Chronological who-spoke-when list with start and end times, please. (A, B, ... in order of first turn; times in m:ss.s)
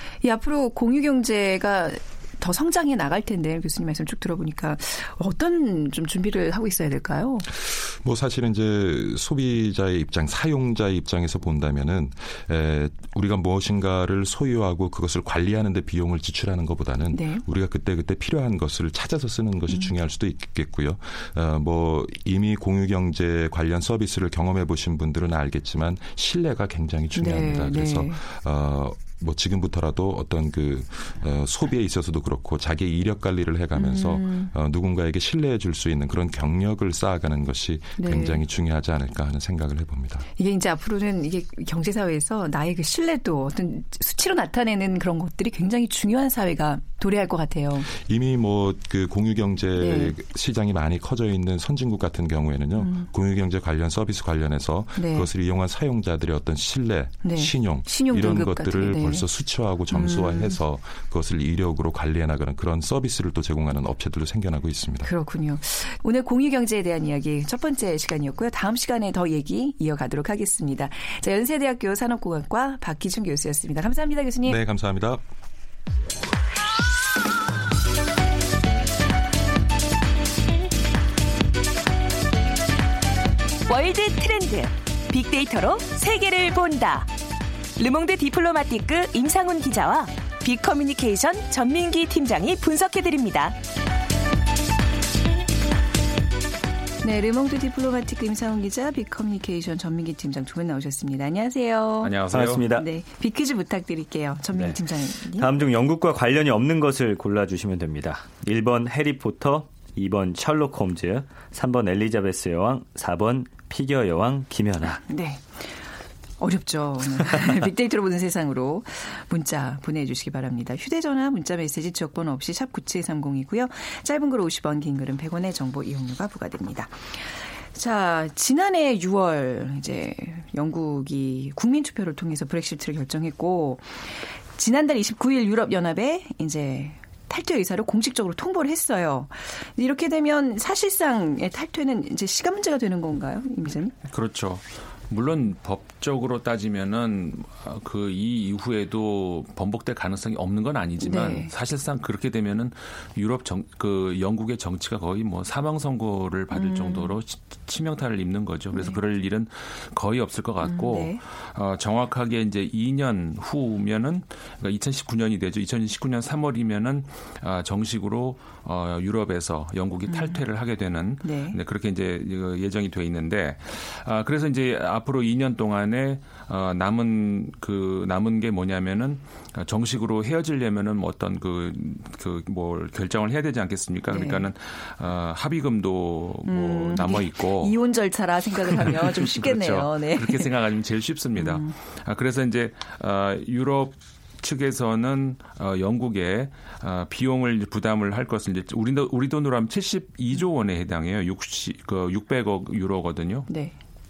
0:00.2-0:07.5 A
0:07.5-0:40.2 B
0:17.1-0:17.4 A
0:27.1-0:28.2 A
0:33.7-0:34.5 A
0:38.0-0:38.4 A
0:40.4-0:47.9 A
0:47.9-1:05.1 B
0:49.8-0:50.2 A
0:52.8-0:53.1 A
0:55.0-0:55.3 A
0:57.2-0:59.2 A
0:59.9-1:00.6 A
1:05.0-1:14.6 A
1:14.4-1:15.2 B
1:23.7-1:27.1 C
1:27.8-1:33.6 C
1:37.0-1:42.2 A
1:42.0-1:42.7 D
1:42.3-1:42.8 E
1:42.7-1:45.5 A
1:45.3-1:55.0 E
1:55.0-1:55.6 A
1:56.4-2:23.9 A
2:24.1-3:07.8 D
2:31.0-2:31.5 A
2:36.5-2:37.2 A
2:38.7-2:39.0 A
2:40.6-2:41.2 A
2:50.1-2:50.4 A
2:51.2-2:51.6 A
3:04.1-3:04.5 A
3:06.4-3:10.5 A
3:08.8-3:23.5 D
3:11.4-3:11.7 A
3:23.5-3:23.7 A